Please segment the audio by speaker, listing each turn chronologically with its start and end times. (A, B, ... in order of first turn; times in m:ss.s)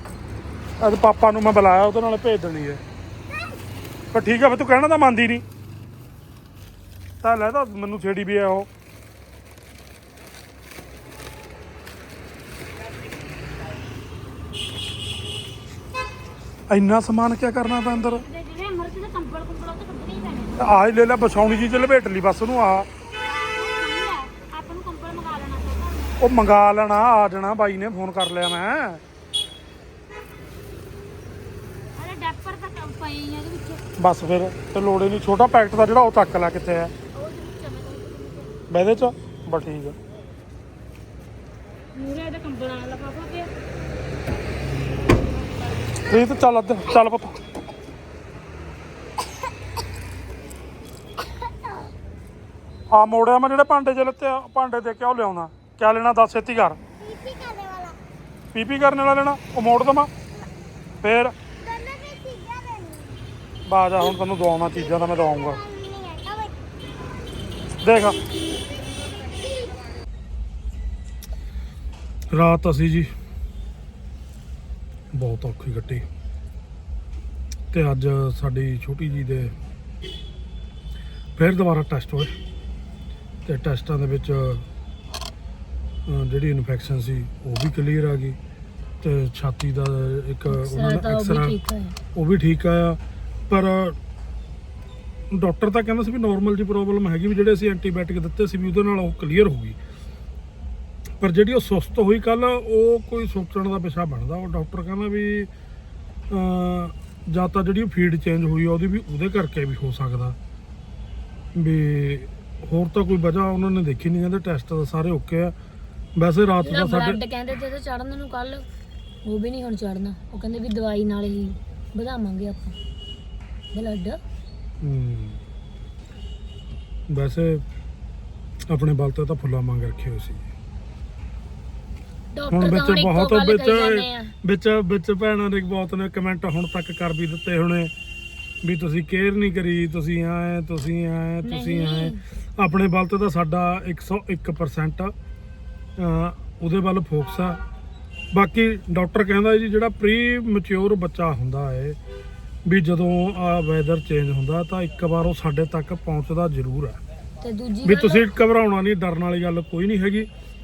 0:00.8-0:02.8 A
0:03.3-0:03.6 B
0:04.1-0:05.4 A
0:07.2-0:08.7 A
0:16.7-0:18.2 A
0:17.9-0:20.6 C
0:20.6-0:22.9 A
0:23.2-0:26.2 C
0:26.2-0:29.0 A
0:32.0-0:33.8 C
0:34.0-0:36.9 A
0:37.1-0:38.5 C
0:38.7-0:40.0 A
0:42.0-0:43.5 C
0:45.4-0:46.1 C
0:46.0-0:47.4 A
0:52.9-0:56.8 A
0:57.0-0:58.0 B
0:58.5-1:00.1 A
1:01.0-1:01.4 A
1:01.6-1:03.2 B
1:03.7-1:05.6 A
1:04.7-1:06.6 B
1:07.8-1:08.2 A
1:09.2-1:09.8 B
1:12.3-1:13.1 A
1:15.1-1:16.1 A
1:17.7-1:19.5 A
1:21.4-1:22.4 A
1:23.4-1:24.6 A
1:26.1-1:28.4 A
1:29.0-1:31.6 A
1:30.5-1:32.0 C
1:32.2-1:34.0 A
1:35.3-1:39.8 A
1:41.2-1:45.5 A
1:46.3-1:50.4 A
1:51.6-1:55.5 A
1:56.2-1:57.2 A
1:56.6-1:58.7 C
1:59.2-2:02.8 C
2:03.7-2:04.2 C
2:04.8-2:05.4 A
2:07.1-2:07.6 A
2:08.7-2:10.4 A
2:12.3-2:14.3 C
2:12.5-2:17.9 A
2:18.6-2:25.1 A
2:21.4-2:22.2 C
2:26.0-2:27.6 A
2:28.3-2:32.0 A
2:32.6-2:37.0 A
2:37.4-2:38.3 C
2:37.8-2:40.3 A